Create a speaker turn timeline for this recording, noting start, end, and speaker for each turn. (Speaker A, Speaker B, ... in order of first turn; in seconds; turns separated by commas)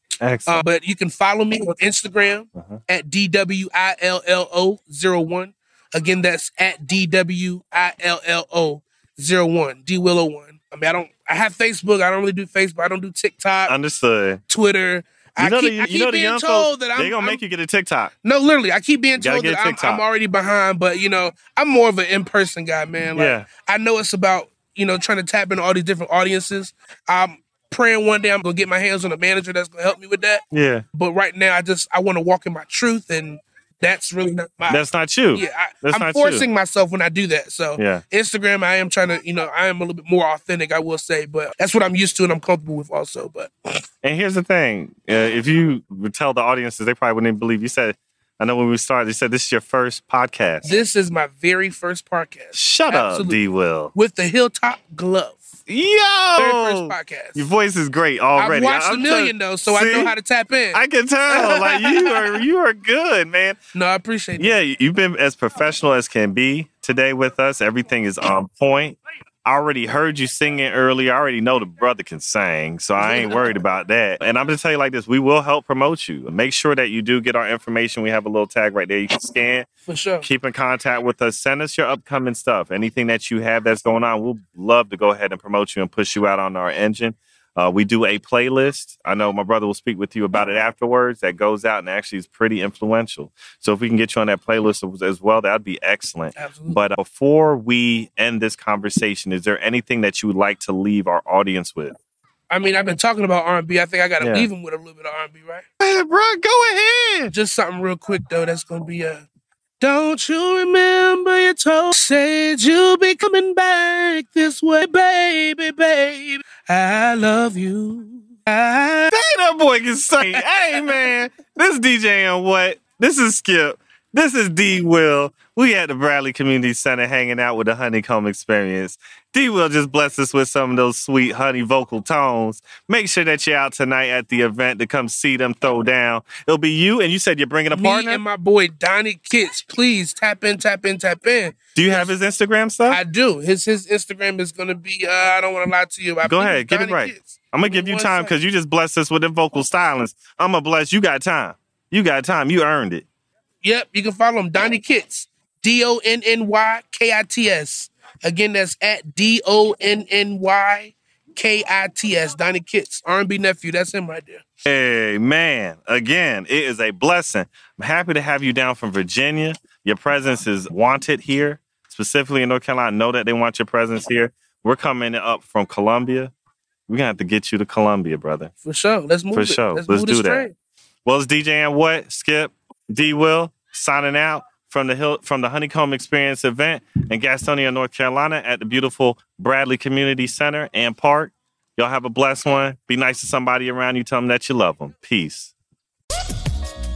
Speaker A: 0.2-0.7, Speaker B: 0.5-13.7, Speaker A: 13.7-14.4, Speaker B: 14.5-17.4, Speaker A: 15.4-18.1, Speaker B: 18.2-30.4, Speaker A: 19.2-20.0, Speaker A: 23.1-23.5, Speaker A: 30.5-30.9, Speaker B: 30.9-43.7, Speaker A: 34.7-36.5, Speaker A: 37.8-38.0, Speaker A: 44.0-50.7, Speaker B: 50.6-53.4, Speaker A: 52.5-53.9, Speaker B: 53.9-55.5, Speaker A: 55.7-60.2, Speaker B: 56.4-57.5, Speaker B: 58.4-62.4, Speaker A: 60.7-63.6, Speaker B: 63.8-64.6, Speaker A: 64.3-79.7, Speaker B: 73.0-73.6, Speaker B: 79.9-80.3, Speaker A: 80.2-102.0, Speaker B: 96.4-96.8, Speaker B: 102.5-105.7, Speaker A: 104.2-104.5, Speaker A: 105.8-107.3, Speaker B: 107.3-109.3, Speaker B: 109.8-119.1, Speaker A: 119.1-138.2, Speaker B: 120.3-121.1, Speaker B: 137.7-142.1, Speaker A: 141.8-143.0, Speaker B: 142.9-148.3, Speaker A: 146.3-153.1, Speaker B: 153.6-164.4, Speaker A: 164.7-176.3, Speaker A: 176.9-178.5, Speaker B: 178.7-180.5, Speaker A: 179.3-180.5, Speaker A: 181.1-195.5